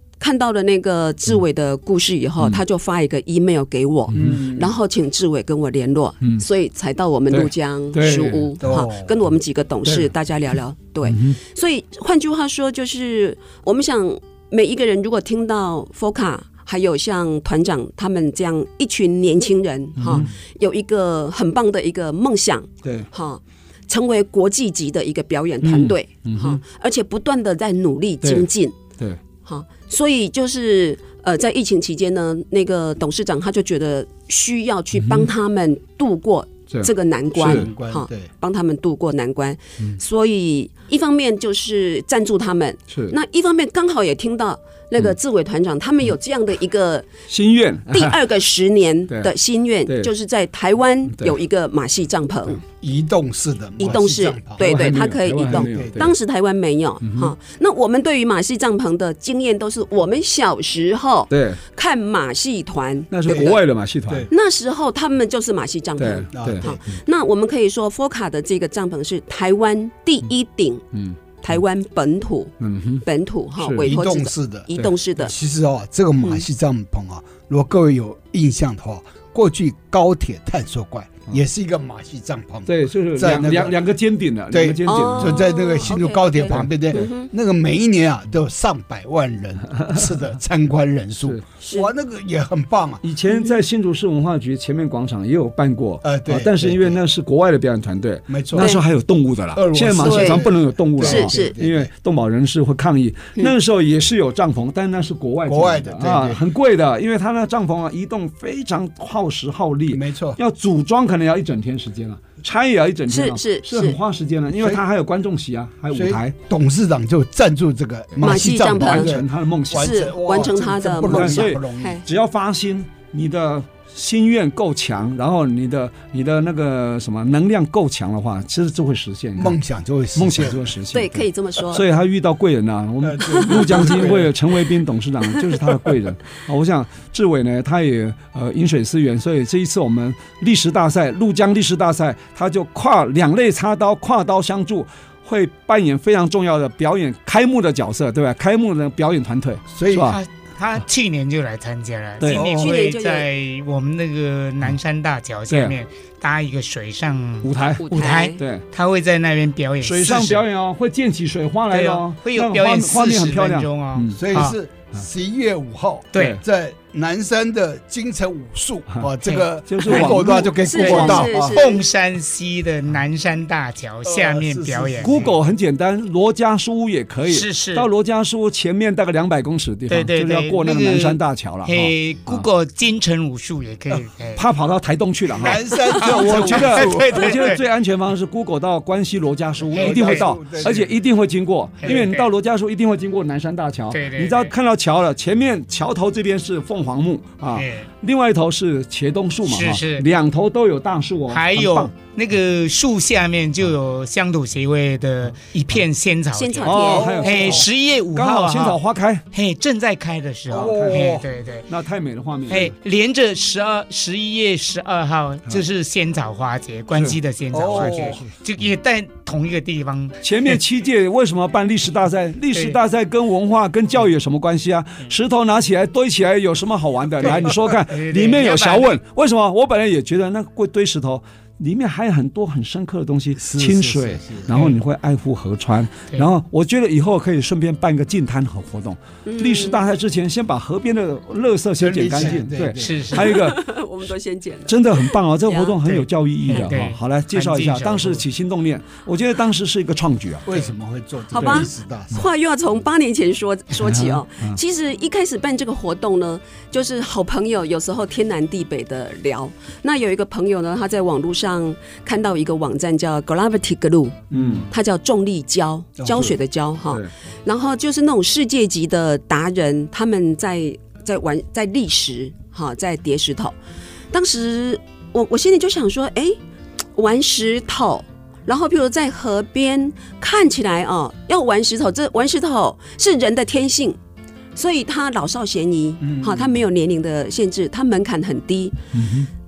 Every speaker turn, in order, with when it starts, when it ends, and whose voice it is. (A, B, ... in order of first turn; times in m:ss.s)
0:00.2-0:28.8 A
0:04.1-0:04.4 B
0:04.1-0:04.7 C
0:07.3-0:08.5 B
0:08.6-0:09.2 C
0:11.0-0:11.4 B
0:20.0-0:20.3 B
0:25.6-0:26.6 B
0:29.4-0:47.1 A
0:35.0-0:35.3 B
0:36.7-0:37.7 B
0:37.4-0:38.3 C
0:47.3-0:48.2 B
0:47.9-0:52.6 A
0:52.8-0:56.1 C
0:53.8-1:03.6 A
0:54.6-0:56.1 B
0:57.0-0:57.3 B
1:01.3-1:01.6 B
1:03.1-1:04.3 B
1:03.2-1:04.3 C
1:04.3-1:10.8 A
1:06.0-1:06.8 B
1:06.3-1:06.8 C
1:10.9-1:11.2 B
1:11.4-1:15.3 A
1:12.6-1:13.0 B
1:13.6-1:13.9 B
1:13.8-1:23.8 C
1:22.7-1:25.4 B
1:24.5-1:33.0 C
1:24.8-1:27.3 A
1:26.6-1:27.1 B
1:31.6-1:31.9 A
1:33.0-1:56.3 B
1:36.0-1:37.0 C
1:38.3-1:38.8 C
1:38.6-1:38.8 A
1:39.5-1:41.9 C
1:40.0-1:40.5 A
1:41.0-1:41.6 A
1:45.4-1:46.4 C
1:49.9-1:50.4 C
1:53.1-1:54.0 A
1:54.6-1:54.8 C
1:55.9-2:02.0 C
1:58.1-2:00.1 B
1:58.2-1:59.2 A
1:59.7-2:02.0 A
2:01.0-2:09.6 B
2:09.4-2:10.7 C
2:10.1-2:30.2 B
2:10.9-2:11.8 A
2:13.0-2:14.3 C
2:13.3-2:14.0 A
2:29.7-2:30.2 C
2:30.1-2:40.4 D
2:32.2-2:32.4 B
2:32.3-2:32.7 C
2:32.4-2:33.3 A
2:35.5-2:35.7 B
2:37.4-2:38.6 B
2:37.8-2:38.4 A
2:39.8-2:44.5 B
2:41.7-2:44.5 D
2:44.2-2:51.6 C
2:46.1-2:46.4 D
2:46.1-2:46.4 B
2:49.2-2:50.1 D
2:49.7-2:51.2 B
2:50.6-2:51.8 A
2:50.7-2:55.3 D
2:54.0-2:55.4 C
2:55.0-3:02.4 B
2:57.3-2:57.9 D
2:59.9-3:04.4 D
3:04.4-3:21.9 B
3:05.3-3:07.4 C
3:05.8-3:07.6 D
3:09.6-3:10.9 C
3:09.7-3:10.8 D
3:11.8-3:12.3 D
3:13.9-3:14.5 D
3:17.5-3:17.9 D
3:19.4-3:20.1 D
3:21.3-3:28.8 D
3:26.3-3:27.2 A
3:26.6-3:29.2 B
3:26.9-3:27.6 C
3:29.3-3:31.7 D
3:30.5-3:31.2 C
3:30.5-3:32.7 B
3:32.5-3:40.2 D
3:37.5-3:38.2 C
3:37.7-3:38.3 B
3:40.2-4:03.6 B
3:42.5-3:42.8 D
3:47.2-3:49.0 D
3:53.4-3:54.7 C
3:59.2-3:59.8 A
4:01.8-4:03.3 C
4:02.7-4:03.4 D
4:03.1-4:06.7 A
4:04.7-4:10.5 B
4:06.4-4:08.2 D
4:10.4-4:12.3 C
4:11.3-4:33.6 A
4:11.4-4:11.6 B
4:13.8-4:14.6 B
4:24.3-4:24.7 B
4:24.3-4:24.6 C
4:26.0-4:26.3 C
4:34.1-4:36.4 A
4:36.9-4:44.0 A
4:44.6-4:48.8 A
4:46.0-4:46.5 C
4:48.9-4:49.3 B